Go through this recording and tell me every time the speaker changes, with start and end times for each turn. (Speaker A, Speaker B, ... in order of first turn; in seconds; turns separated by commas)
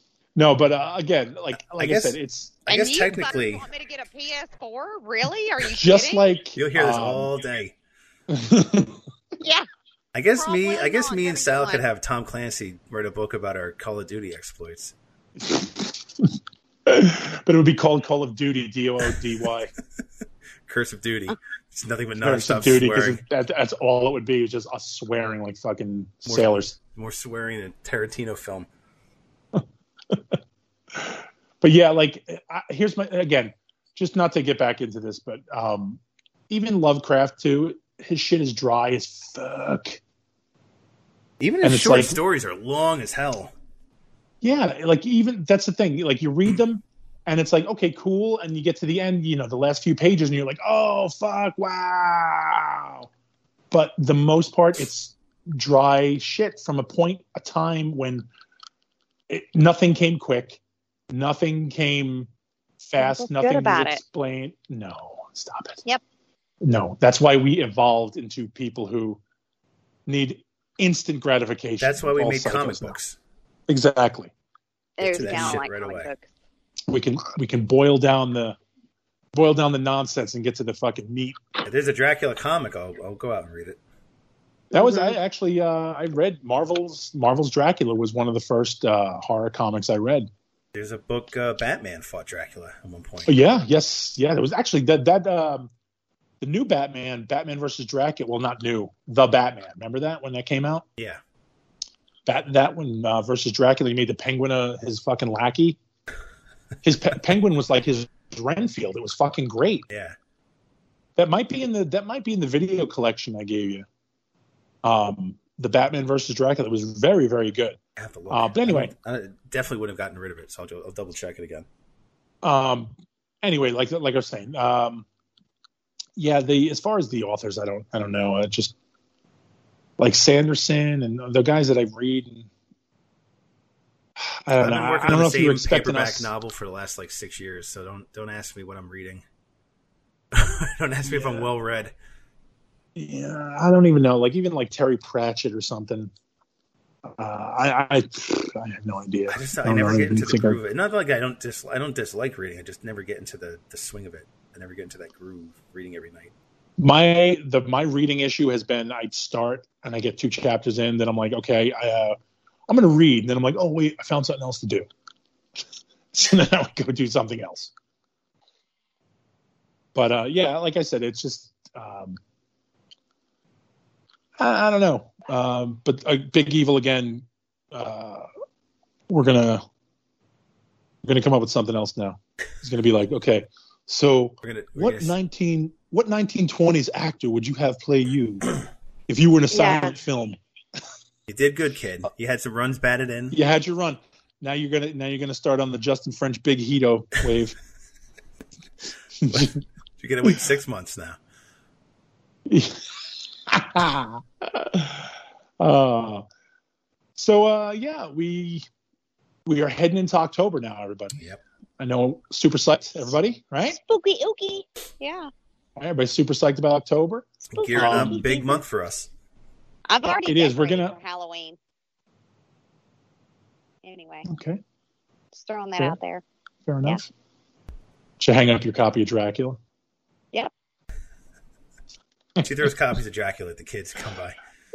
Speaker A: 0.4-2.6, Speaker B: 1.7-3.6, Speaker C: 2.7-6.2, Speaker A: 5.7-7.3, Speaker B: 6.6-7.8, Speaker A: 8.3-9.0, Speaker C: 9.4-9.7, Speaker B: 10.1-14.9, Speaker C: 10.4-11.8, Speaker A: 15.4-16.3, Speaker A: 16.9-19.7, Speaker B: 20.7-23.2, Speaker A: 22.2-26.8, Speaker B: 26.3-28.7, Speaker A: 29.6-30.4, Speaker A: 30.9-40.0, Speaker B: 41.4-43.5, Speaker A: 41.6-42.2, Speaker A: 44.4-53.1, Speaker A: 53.7-58.3, Speaker A: 59.3-60.6, Speaker A: 61.1-62.3, Speaker A: 62.8-65.8, Speaker C: 63.0-64.0, Speaker A: 66.6-69.2, Speaker A: 70.1-73.0, Speaker B: 71.8-73.2, Speaker A: 73.7-74.3, Speaker C: 75.0-76.2, Speaker B: 75.0-76.1, Speaker A: 75.2-75.6, Speaker A: 76.9-78.6, Speaker A: 79.3-81.4, Speaker B: 81.6-83.8, Speaker A: 84.7-90.3, Speaker C: 84.8-85.2, Speaker B: 90.7-93.4, Speaker A: 93.3-95.7, Speaker A: 96.4-100.9, Speaker A: 102.3-105.8, Speaker A: 106.8-109.9, Speaker B: 109.9-110.2, Speaker A: 111.2-113.9, Speaker A: 114.8-117.8, Speaker B: 118.0-121.7, Speaker A: 118.3-118.9, Speaker A: 122.4-125.0, Speaker A: 126.2-128.7, Speaker A: 130.0-132.5, Speaker A: 134.2-136.3, Speaker B: 134.6-139.2, Speaker B: 140.3-141.9, Speaker A: 141.1-141.5, Speaker A: 142.9-146.1, Speaker A: 147.2-150.6, Speaker B: 149.3-156.3, Speaker A: 156.8-162.2, Speaker A: 162.7-164.9, Speaker A: 166.1-167.7, Speaker A: 169.9-172.2, Speaker A: 174.4-178.3, Speaker A: 179.1-179.7, Speaker A: 181.0-188.5, Speaker B: 184.4-185.2, Speaker A: 189.1-190.4, Speaker C: 189.5-189.9, Speaker B: 191.3-193.4, Speaker A: 193.3-197.6, Speaker A: 199.2-199.5, Speaker B: 199.3-201.2, Speaker A: 202.5-202.8, Speaker A: 203.5-206.2, Speaker A: 207.2-208.7, Speaker A: 209.5-211.2, Speaker A: 211.8-213.8, Speaker C: 213.7-215.3, Speaker A: 215.8-218.2, Speaker B: 217.5-219.1, Speaker C: 217.6-218.6, Speaker C: 219.9-221.6, Speaker A: 220.2-220.9, Speaker C: 223.8-224.3, Speaker A: 224.3-224.6, Speaker C: 225.3-226.2, Speaker A: 226.7-227.1, Speaker A: 228.2-229.6, Speaker B: 232.4-234.4